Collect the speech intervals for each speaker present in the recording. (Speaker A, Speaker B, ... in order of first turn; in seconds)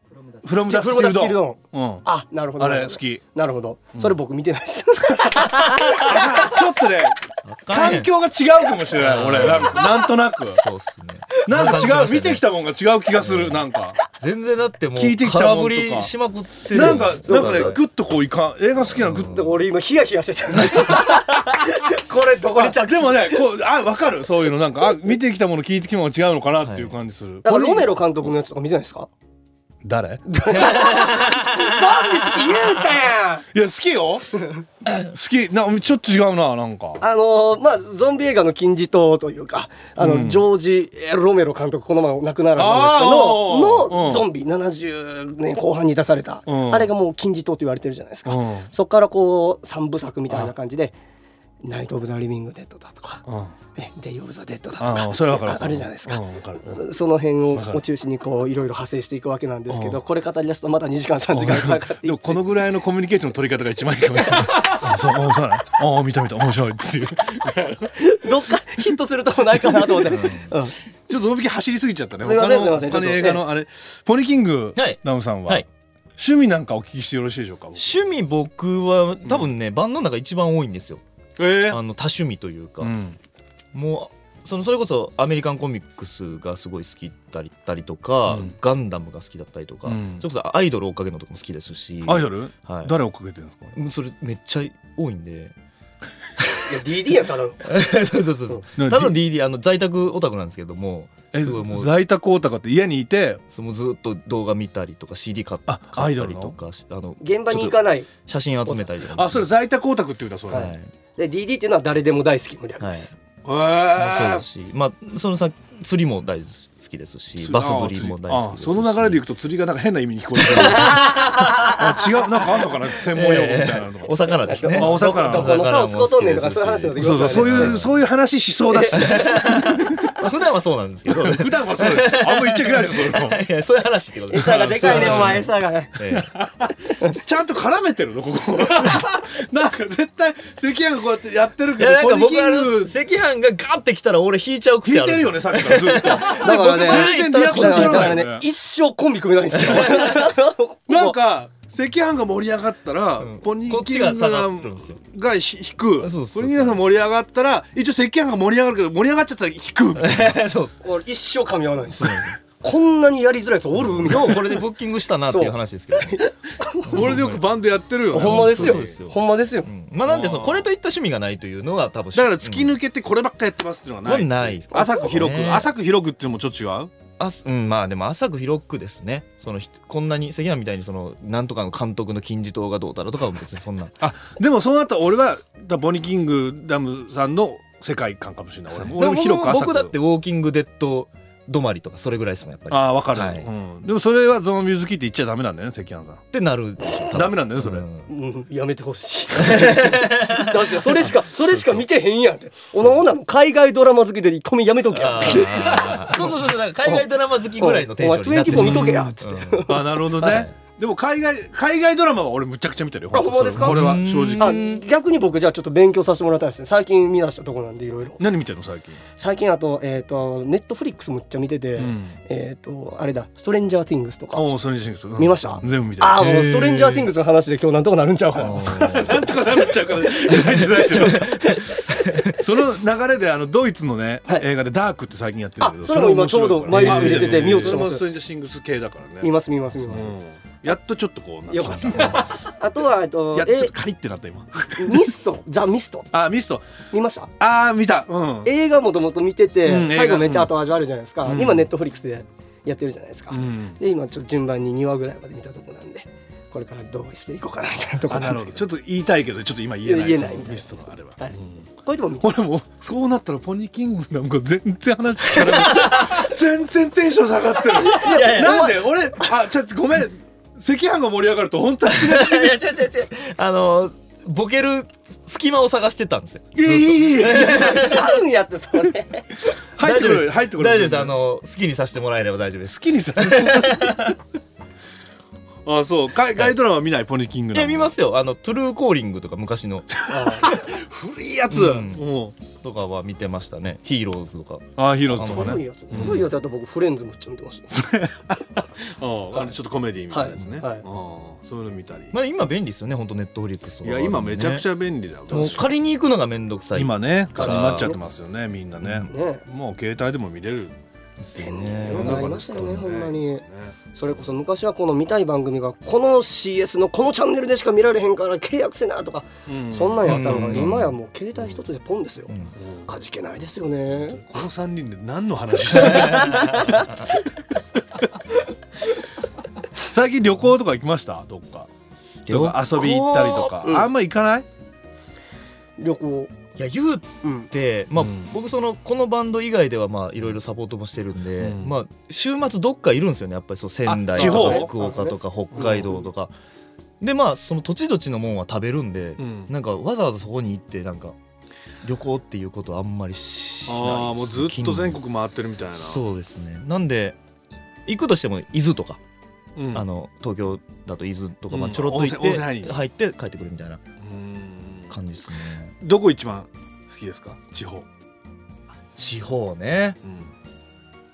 Speaker A: 0.4-2.0, 2.6-3.2, 5.9-7.2, 7.7-10.6, 11.4-14.0, 14.9-16.1, 16.7-19.4, 20.6-21.8, 22.5-28.3, 29.8-30.2, 33.5-34.3, 34.8-37.0, 40.0-40.5, 42.5-44.3, 46.5-46.9, 48.2-48.7, 53.2-53.5, 54.8-56.8, 57.5-57.8, 59.7-60.0, 61.3-68.0, 71.1-75.6, 76.2-77.9, 81.4-81.8, 82.8-83.2, 88.3-88.5, 89.8-90.2, 92.0-93.7, 98.8-99.2, 101.3-103.4, 105.7-106.5, 109.0-110.7, 113.4-114.4, 117.4-125.6, 127.0-130.3, 131.1-133.4, 134.3-135.5, 136.1-142.9, 144.8-148.4, 149.6-150.1, 150.9-160.4, 166.9-168.9, 170.0-170.7, 172.1-176.9, 184.0-189.9, 192.7-196.2, 197.1-197.8, 208.4-214.6, 218.2-219.0, 221.8-222.2, 224.3-227.1, 228.4-231.4, 232.4-242.4, 243.3-245.2, 246.1-246.7, 247.4-248.5, 249.6-250.5, 251.2-251.7, 253.3-253.8, 258.1-261.6, 262.2-272.6, 276.5-278.0, 279.8-281.1, 282.6-284.1, 285.6-287.9, 290.1-292.3, 294.8-296.2, 297.7-302.1, 303.8-305.7, 306.8-310.7, 311.9-313.8, 319.4-320.9, 322.6-322.9, 323.9-326.9, 329.8-331.7, 332.3-334.4, 338.0-338.3, 341.4-341.7, 343.9-344.7, 345.5-346.0, 349.2-349.5, 353.7-356.0, 359.6-359.9, 361.5-362.8, 364.0-364.9, 365.8-367.9, 370.0-370.3
Speaker B: 0.6-6.6, 16.7-17.8, 19.0-23.4, 27.4-29.1, 30.3-33.4, 34.4-34.6, 37.0-50.9, 51.6-53.2, 53.7-62.4, 68.0-70.7, 72.2-73.4, 96.6-97.7, 107.2-108.1, 110.5-113.1, 120.7-121.8, 124.5-127.8, 128.7-129.4, 134.3-135.9, 146.3-151.2, 160.8-164.6, 165.3-167.3, 168.1-169.7, 198.1-210.4, 213.1-218.2, 219.2-224.4, 225.2-232.3, 235.6-238.0, 239.2-240.2, 241.5-243.7, 244.8-246.1, 246.9-247.3, 248.4-258.6, 259.8-262.3, 267.8-268.9, 277.2-279.3, 290.1-290.5, 295.1-297.8, 300.1-300.8, 307.4-308.0, 309.0-309.4, 311.4-322.3, 322.9-324.2, 325.8-327.0, 333.4-333.9, 335.8-336.3, 337.2-337.5, 344.1-345.9
Speaker C: 7.4-8.1, 8.9-12.4, 13.2-17.8, 18.9-19.6, 26.6-26.9, 30.5-32.5, 70.1-70.5, 74.8-75.7, 77.8-81.0, 81.7-82.9, 83.7-93.0, 93.7-95.5, 97.6-101.9, 103.5-109.5, 110.5-110.9, 112.8-113.1, 114.0-119.2, 120.5-121.3, 123.1-127.9, 128.9-136.3, 141.8-148.2, 149.6-150.3, 153.2-155.0, 156.0-156.8, 159.9-160.8, 162.0-162.3, 164.0-166.2, 166.9-167.4, 168.1-172.8, 174.0-175.7, 177.2-183.9, 188.7-193.5, 196.3-198.1, 199.4-201.8, 204.9-210.5, 213.5-214.8, 228.4-229.3, 230.3-232.4, 236.7-237.5, 265.4-266.3, 267.7-268.7, 271.9-278.1, 279.8-284.2, 287.5-289.9, 291.5-296.3, 302.1-304.6, 305.3-307.9, 311.2-312.8, 320.0-320.9, 325.8-326.8, 332.2-333.5, 336.6-346.3, 347.0-351.1, 351.8-355.0, 355.8-357.2, 357.9-359.0, 359.7-363.8, 364.9-365.7, 368.9-370.0